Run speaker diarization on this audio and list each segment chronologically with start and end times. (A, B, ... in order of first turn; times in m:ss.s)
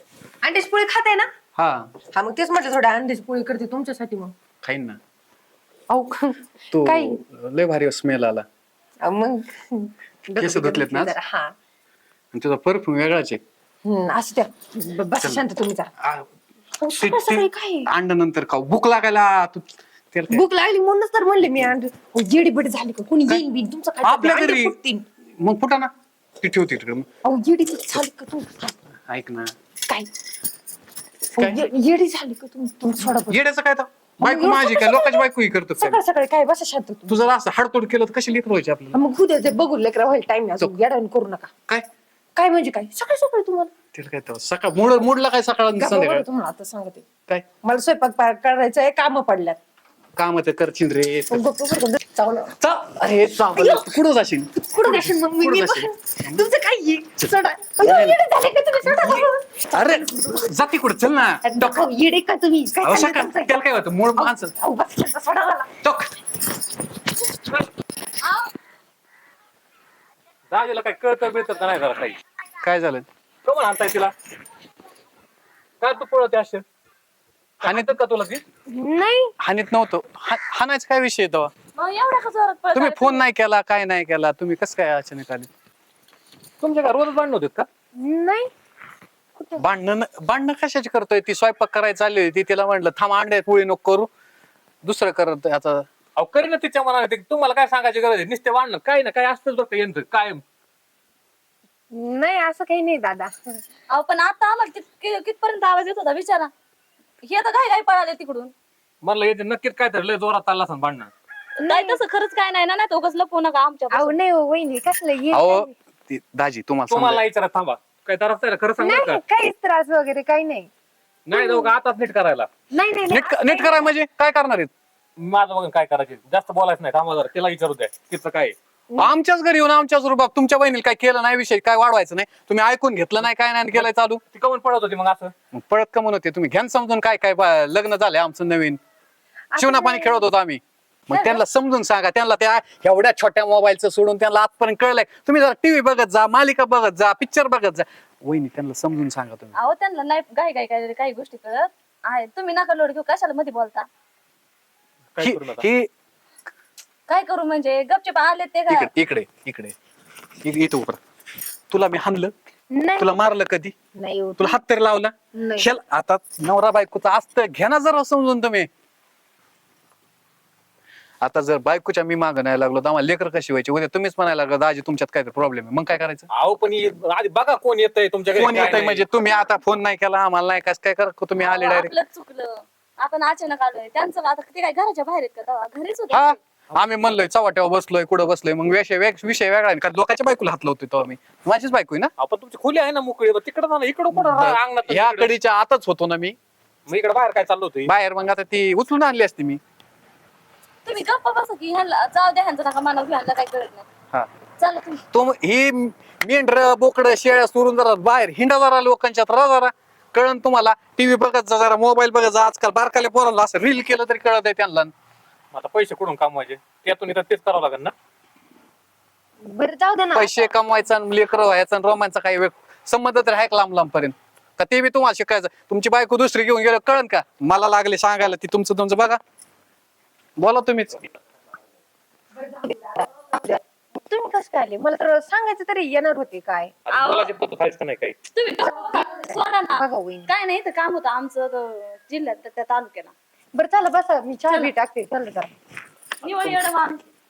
0:00.4-0:01.3 A
0:01.6-0:01.9 B
0:02.1-0:04.3 A
0:04.6-0:05.0 B
0:05.9-0:07.2 A
0:06.7-0:08.4 B
0:09.0-0:11.5 A
0:10.4-0:11.1 B
0:12.3-0:13.4 B
0:13.8-0:15.9 A
0:16.0-0:16.2 B
0:16.8-0:17.9 A
0:16.9-0:20.4 B
0:20.3-0:25.0 A
0:24.0-0:24.7 B
0:25.4-0:27.0 B
0:27.2-0:28.7 A
0:29.1-0:29.5 B
0:31.3-0:33.4 A
0:33.3-0:36.0 B
0:34.2-0:35.2 A
0:35.8-0:37.2 A
0:37.1-0:39.0 B
0:38.9-0:41.5 A
0:42.4-0:43.7 A
0:43.9-0:46.2 B
0:45.8-0:47.0 A
0:47.6-0:49.6 A
0:50.2-0:51.4 B
0:51.3-0:52.6 A
0:52.6-0:56.4 B
0:53.5-0:53.9 A
0:54.5-1:00.4 A
0:57.8-0:58.2 B
0:58.8-1:01.8 B
1:01.4-1:03.6 A
1:02.8-1:04.5 B
1:04.2-1:05.7 A
1:05.8-1:06.1 B
1:08.2-1:08.5 C
1:10.5-1:12.2 D
1:12.6-1:13.0 B
1:13.4-1:14.1 D
1:15.8-1:16.6 D
1:17.6-1:18.4 D
1:17.6-1:18.0 B
1:18.7-1:19.3 A
1:19.4-1:21.5 B
1:21.8-1:23.2 C
1:22.7-1:25.5 B
1:26.6-1:27.7 D
1:28.0-1:28.5 A
1:29.4-1:29.6 A
1:29.6-1:34.1 B
1:34.8-1:35.8 B
1:36.2-1:40.4 D
1:41.9-1:43.6 A
1:43.9-1:46.5 C
1:47.2-1:48.5 C
1:49.0-1:51.1 D
1:51.6-1:54.2 C
1:51.6-1:52.0 A
1:53.9-1:55.7 A
1:55.3-1:57.2 B
1:56.9-1:59.2 D
1:58.8-2:00.7 A
2:01.3-2:02.5 D
2:01.4-2:01.6 C
2:02.7-2:03.9 A
2:03.1-2:04.7 B
2:05.2-2:08.5 D
2:09.0-2:14.2 B
2:14.3-2:15.3 D
2:15.5-2:18.8 B
2:19.5-2:20.2 A
2:19.6-2:29.5 B
2:21.1-2:21.4 C
2:29.6-2:33.9 C
2:35.1-2:35.6 D
2:35.2-2:35.9 B
2:37.1-2:38.9 C
2:38.7-2:39.7 B
2:40.4-2:41.0 B
2:41.7-2:42.3 B
2:42.7-2:43.2 A
2:43.0-2:43.7 B
2:44.0-2:44.6 A
2:44.4-2:48.7 B
2:45.3-2:45.7 A
2:51.2-2:56.3 B
2:56.3-2:59.1 D
2:58.3-3:01.9 B
3:01.4-3:06.4 C
3:06.1-3:12.1 B
3:12.2-3:15.3 D
3:14.1-3:16.4 B
3:16.9-3:17.9 D
3:17.8-3:19.6 B
3:20.8-3:23.9 C
3:24.6-3:25.0 C
3:25.1-3:34.9 B
3:35.5-3:37.9 D
3:39.4-3:40.5 A
3:40.1-3:49.2 B
3:50.4-3:51.0 B
3:52.3-3:56.7 A
3:56.9-3:58.2 D
3:56.9-3:57.3 C
3:58.3-4:03.1 C
3:59.8-4:00.3 A
4:03.5-4:05.5 A
4:06.2-4:07.0 C